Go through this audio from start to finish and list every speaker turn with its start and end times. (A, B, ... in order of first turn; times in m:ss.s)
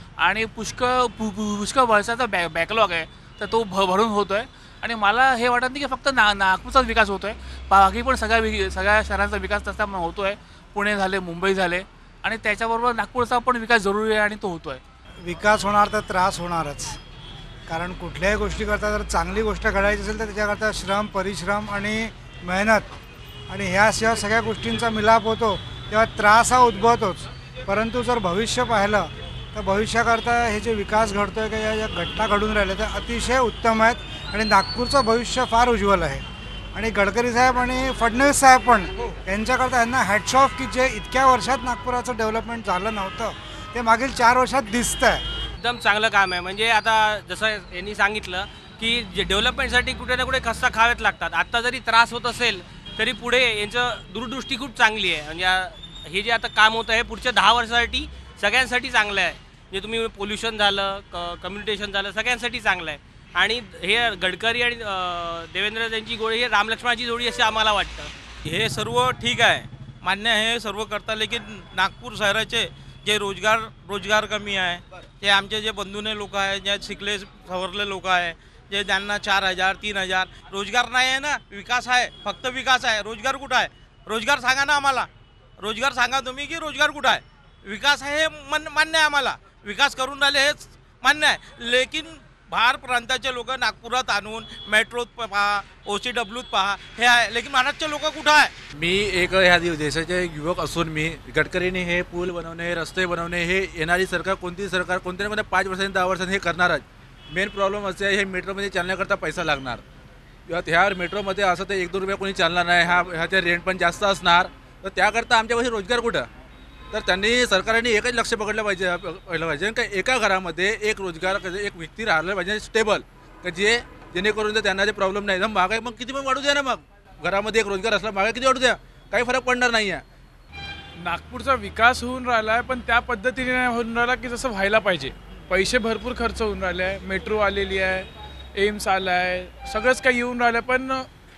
0:00.2-0:14.8 A
0:15.2-0:17.0 B
0:17.7-0:22.8 B
0:23.5-0:45.2 B
0:45.6-1:08.1 C
1:08.4-1:38.5 D
1:38.8-1:49.8 E
1:50.5-1:56.3 E
1:56.9-2:10.0 E
2:11.0-2:21.0 F